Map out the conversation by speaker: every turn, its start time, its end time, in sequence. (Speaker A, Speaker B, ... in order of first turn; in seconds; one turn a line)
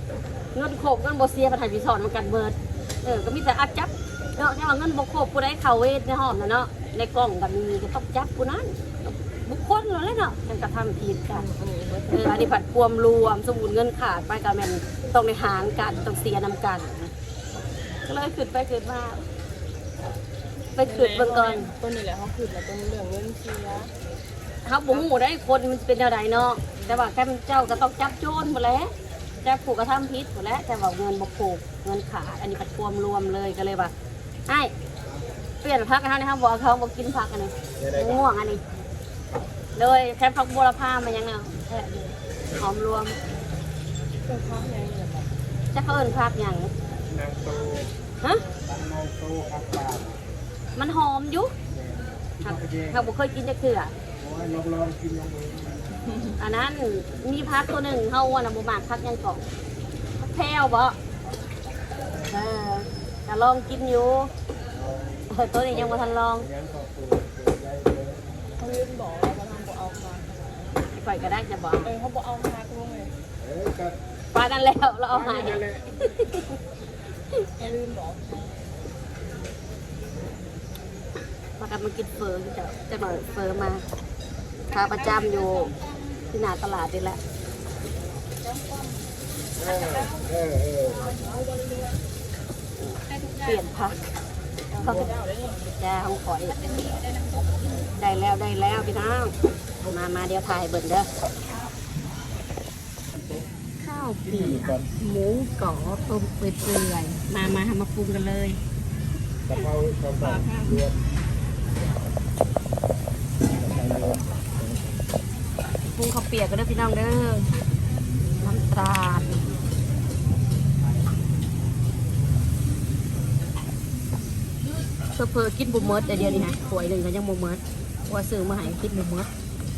Speaker A: 0.5-11.4
Speaker B: 11.3-12.6
Speaker A: 12.1-17.1
Speaker A: 18.0-19.2
Speaker A: 20.7-21.7
Speaker B: 20.8-23.9
Speaker A: 24.6-28.9
Speaker B: 26.8-27.1
Speaker A: 29.4-33.9
Speaker A: 34.5-34.7
Speaker A: 35.6-38.6
Speaker C: 37.8-38.3
Speaker A: 39.7-43.2
Speaker B: 44.2-45.3
Speaker A: 45.7-46.7
Speaker C: 47.1-47.9
Speaker C: 48.6-50.2
Speaker A: 50.8-51.5
Speaker C: 51.7-53.0
Speaker A: 52.4-53.9
Speaker C: 54.2-55.8
Speaker B: 56.1-56.3
Speaker A: 56.4-59.4
Speaker A: 60.2-61.0
Speaker A: 62.3-64.3
Speaker C: 64.7-65.2
Speaker A: 65.3-66.5
Speaker C: 66.4-68.3
Speaker B: 68.6-70.8
Speaker A: 70.9-71.9
Speaker B: 71.8-73.1
Speaker C: 73.4-74.0
Speaker A: 74.3-76.6
Speaker C: 75.2-76.0
Speaker B: 77.5-78.6
Speaker A: 81.6-83.8
Speaker A: 84.7-85.7
Speaker B: 84.7-86.2
Speaker A: 86.3-87.2
Speaker B: 88.4-90.3
Speaker C: 89.6-91.0
Speaker B: 90.9-92.0
Speaker A: 92.8-94.0
Speaker B: 94.7-95.7
Speaker A: 94.8-95.1
Speaker A: 95.8-96.7
Speaker B: 96.6-97.7
Speaker A: 97.9-101.1
Speaker A: 103.8-108.6
Speaker C: 104.2-104.9
Speaker C: 109.5-111.0
Speaker B: 110.2-110.8
Speaker C: 113.5-114.8
Speaker A: 115.9-117.5
Speaker A: 118.4-119.5
Speaker A: 125.1-129.3